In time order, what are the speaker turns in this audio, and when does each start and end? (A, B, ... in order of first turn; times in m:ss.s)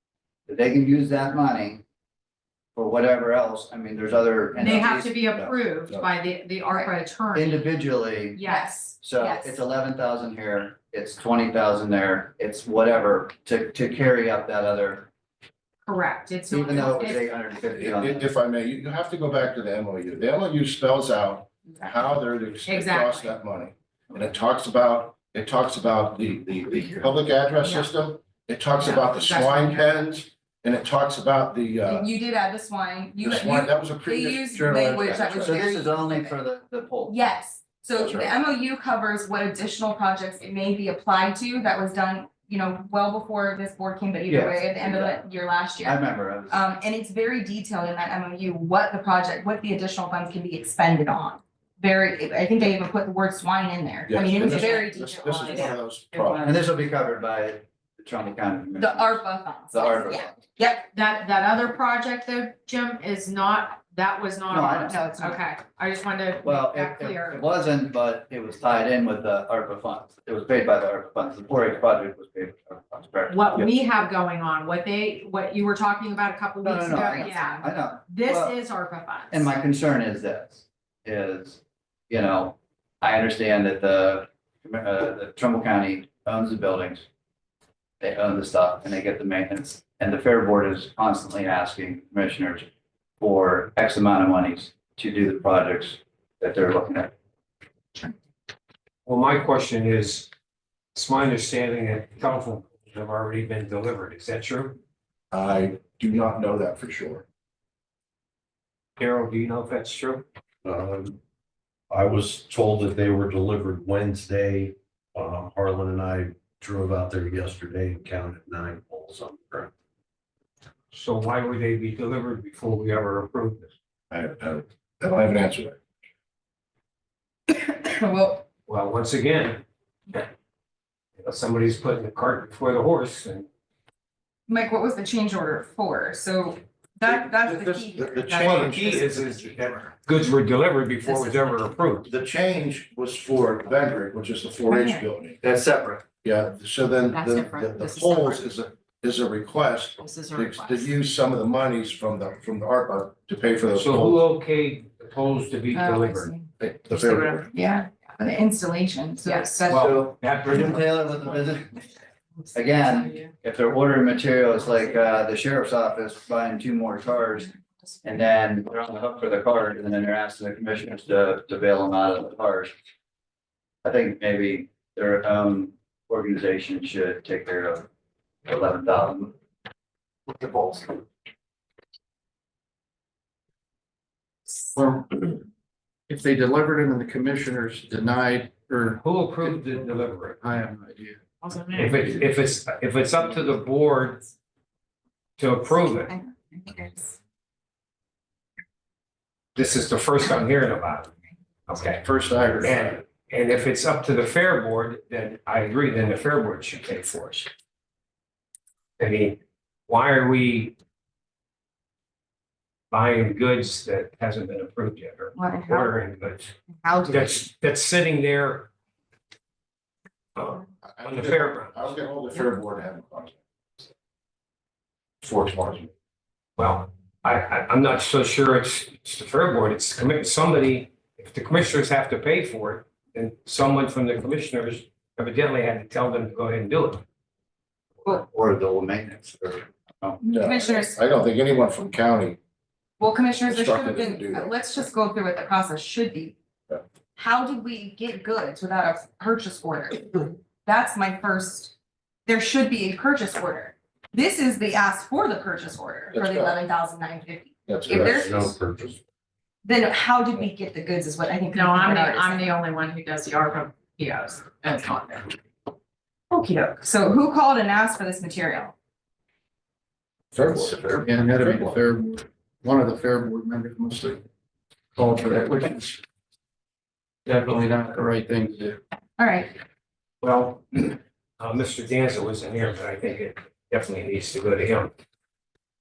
0:00.5-0:01.8 A
0:02.7-0:05.2 A
0:04.6-0:07.7 B
0:05.3-0:06.1 C
0:07.3-0:08.4 A
0:08.3-0:09.0 B
0:08.4-0:09.6 D
0:09.0-0:15.1 A
0:15.8-0:17.3 B
0:16.5-0:18.3 A
0:17.7-0:32.0 C
0:22.6-0:23.3 B
0:29.3-0:29.9 B
0:31.8-0:36.3 D
0:33.2-0:35.6 C
0:35.1-0:37.1 A
0:37.1-0:56.5 D
0:38.0-0:38.3 C
0:44.3-0:45.2 A
0:45.8-0:46.6 A
0:54.1-0:56.6 C
0:56.4-1:00.5 A
0:58.8-1:00.8 D
1:00.8-1:07.5 B
1:04.5-1:05.4 A
1:06.4-1:13.7 A
1:13.3-1:19.5 B
1:16.6-1:18.6 A
1:19.3-1:27.0 A
1:28.0-1:32.7 A
1:33.2-1:37.1 A
1:39.0-1:40.3 E
1:40.9-1:44.8 E
1:45.3-1:47.2 C
1:49.0-1:50.2 E
1:50.6-1:51.2 F
1:51.9-1:59.7 F
2:00.9-2:03.7 E
2:04.1-2:05.8 C
2:07.5-2:08.4 D
2:08.7-2:09.6 E
2:11.2-2:13.5 E
2:14.5-2:19.9 D
2:17.3-2:19.3 C
2:18.3-2:22.1 E
2:22.0-2:25.4 C
2:24.7-2:25.0 D
2:25.4-2:26.0 A
2:26.2-2:34.2 C
2:27.1-2:28.4 B
2:30.0-2:30.9 B
2:33.7-2:36.3 E
2:35.7-2:36.4 D
2:36.6-2:37.5 C
2:37.0-2:37.4 B
2:37.5-2:39.9 D
2:39.2-2:39.7 B
2:39.7-2:41.8 A
2:39.7-2:41.0 E
2:42.5-2:52.7 A
2:53.8-2:57.9 A
2:58.4-2:59.3 A
3:00.4-3:00.8 A
3:04.7-3:05.4 G
3:06.1-3:09.8 G
3:09.0-3:10.4 E
3:10.4-3:11.2 G
3:11.4-3:11.7 B
3:11.7-3:14.2 E
3:11.8-3:12.2 G
3:15.4-3:16.1 E
3:16.1-3:17.1 D
3:19.5-3:21.1 E
3:21.7-3:22.0 E
3:22.0-3:23.0 C
3:22.6-3:27.5 E
3:29.0-3:30.7 E
3:32.9-3:36.5 E
3:35.3-3:35.9 D
3:36.8-3:37.4 D
3:37.1-3:38.7 E
3:40.3-3:41.9 E
3:40.8-3:43.4 C
3:45.2-3:45.9 C
3:46.6-3:57.0 E
3:58.0-4:00.2 A
4:00.2-4:01.0 D
4:00.2-4:02.4 C
4:03.0-4:06.4 D
4:03.4-4:04.6 C
4:07.2-4:11.7 D
4:12.2-4:18.6 D
4:16.1-4:16.5 C
4:17.7-4:18.2 C
4:17.9-4:19.0 F
4:19.6-4:22.5 D
4:21.5-4:25.4 B
4:26.3-4:28.7 D
4:30.3-4:31.8 C
4:30.9-4:34.2 G
4:34.9-4:36.0 G
4:37.2-4:38.8 G
4:39.2-4:39.5 D
4:40.2-4:44.9 E